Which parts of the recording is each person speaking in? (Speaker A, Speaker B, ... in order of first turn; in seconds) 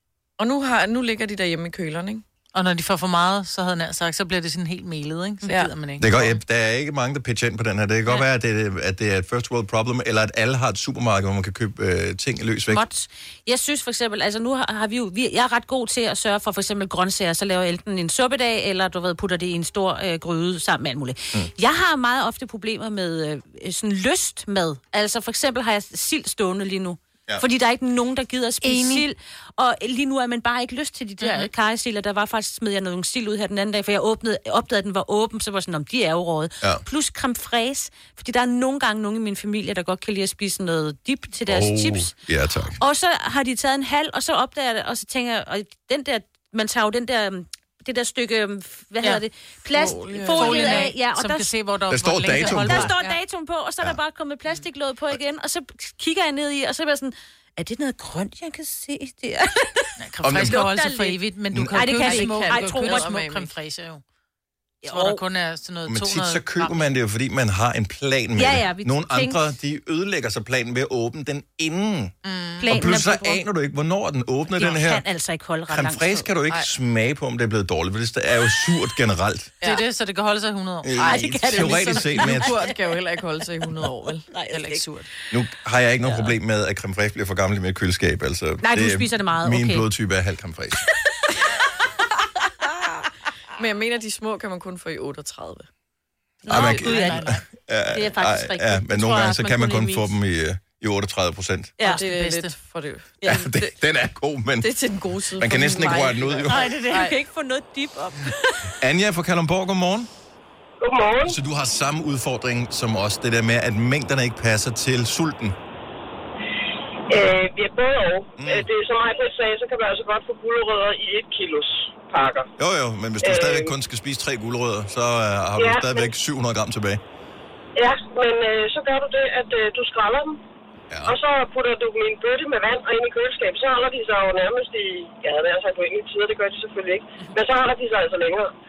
Speaker A: 0.4-2.2, 5.5-5.7, 49.7-50.9, 62.0-63.5, 81.0-84.6, 93.6-95.7, 96.5-97.1, 101.8-103.7, 104.6-107.1
Speaker B: 2.5-6.4, 28.6-29.0, 31.2-31.5, 50.3-53.1, 60.0-64.0, 64.9-66.8, 72.2-72.7, 79.6-81.0, 84.5-85.1, 96.5-97.4, 101.8-102.5
Speaker C: 6.0-12.8, 41.5-42.8, 51.9-52.9, 60.2-60.6, 65.8-72.1, 72.7-75.0, 75.7-79.5, 80.8-82.6, 85.3-90.8, 96.5-101.7, 103.2-104.7, 105.4-106.7, 108.8-110.1, 111.2-115.6, 118.4-118.7, 122.6-127.0, 130.9-131.2
Speaker D: 12.7-42.1, 42.8-51.5, 52.4-63.1, 64.8-65.2, 68.3-69.4, 72.6-73.4, 74.5-76.3, 81.0-82.7, 86.0-86.3, 88.6-89.8, 96.5-100.1, 106.5-108.8
Speaker E: 110.8-111.4, 117.1-122.5, 123.2-123.7, 125.5-126.1, 127.8-130.4, 131.1-138.5